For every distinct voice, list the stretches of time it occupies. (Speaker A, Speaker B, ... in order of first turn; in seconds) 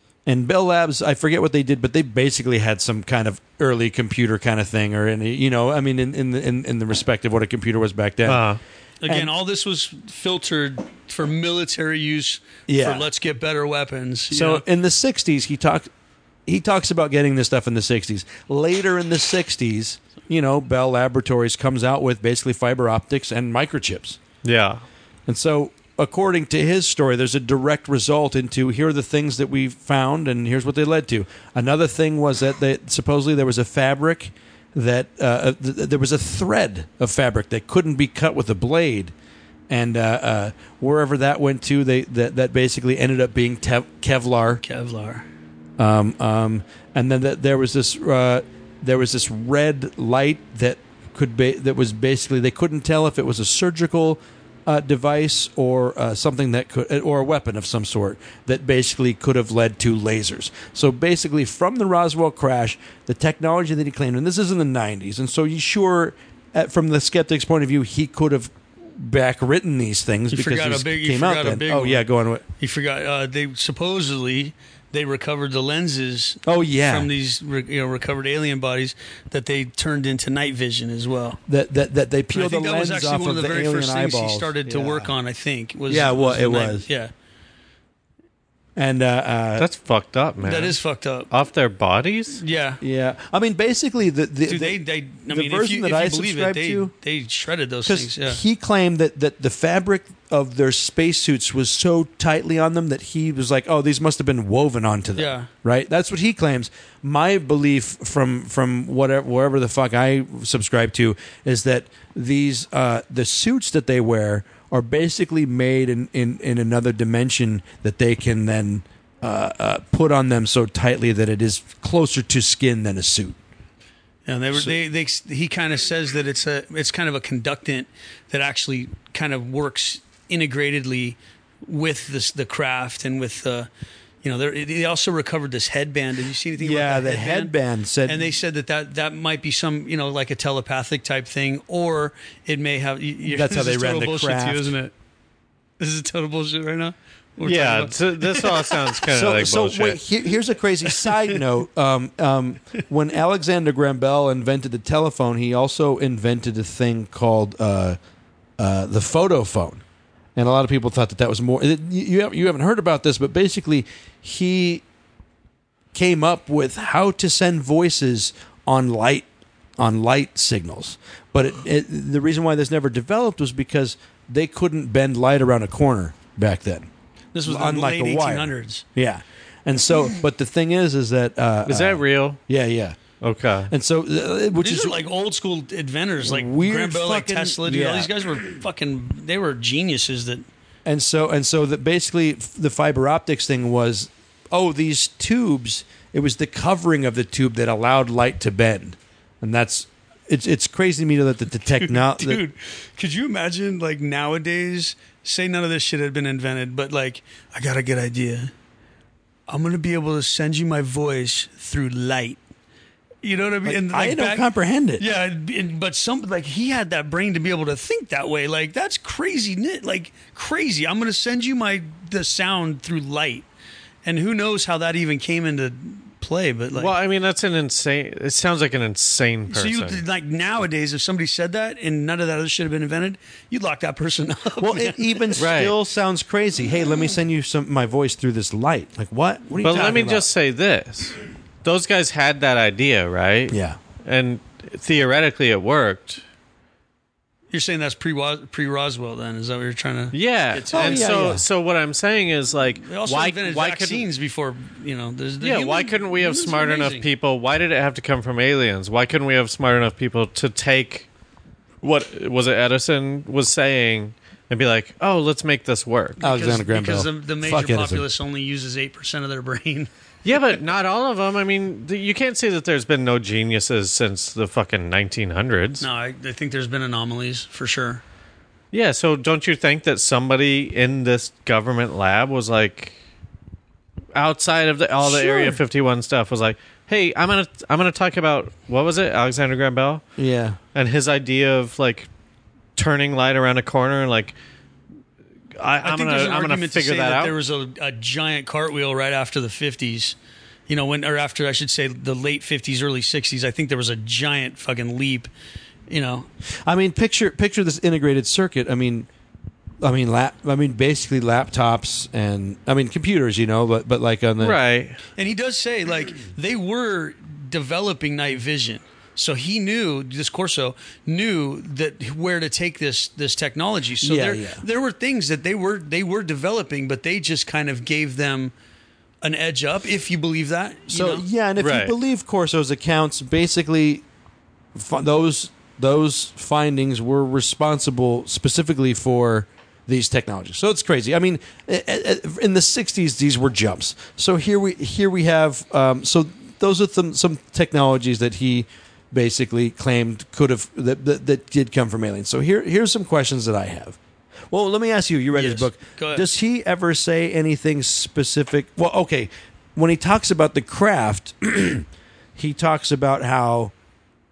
Speaker A: 0.2-8.4, 9.1-9.3, 12.7-13.1, 14.3-15.9, 16.4-24.2, 25.3-39.1, 39.7-44.6, 45.8-72.4, 76.4-77.1, 81.5-85.1, 85.9-86.9, 88.8-89.7, 92.8-96.9, 97.8-123.4, 136.6-138.3, 143.2-144.7, 149.1-158.0, 158.6-159.8, 160.3-164.8, 165.9-169.3, 169.8-176.9, 177.4-183.0, 183.7-185.0, 186.2-188.1, 190.8-202.4, 213.6-215.1, 234.6-240.3, 243.5-243.8, 250.7-251.4, 266.2-268.0, 285.0-285.6, 290.2-290.6, 306.6-309.1, 309.8-314.6, 324.0-324.6, 330.9-334.0, 334.7-354.0, 354.5-363.7
Speaker B: 8.2-8.6, 24.4-24.8, 89.6-90.8, 91.3-92.4, 147.4-150.0, 181.7-182.4, 183.2-183.7, 226.7-230.0, 235.4-235.7, 239.6-246.2, 250.1-254.1, 255.4-261.1, 261.8-266.2, 270.2-275.8, 278.7-282.9, 284.1-290.0, 290.7-292.1, 292.8-294.4, 295.6-297.3, 314.4-315.0, 331.6-331.9
Speaker C: 9.0-14.6, 44.6-45.2, 70.3-72.0, 72.5-81.4, 82.3-87.1, 90.4-91.3, 92.4-92.8, 94.5-98.4, 105.2-105.5, 124.2-133.7, 134.2-137.5, 138.1-144.9, 145.8-149.0, 151.0-151.3, 177.3-178.8, 184.6-190.4, 201.7-208.5, 209.5-212.4, 213.2-214.4, 215.0-223.5, 224.0-226.9, 229.5-235.4, 247.5-251.1, 252.8-257.1, 266.2-269.9, 275.8-278.0, 295.8-300.1, 300.7-305.3, 305.9-306.3, 315.1-328.5, 329.2-331.2, 355.3-356.3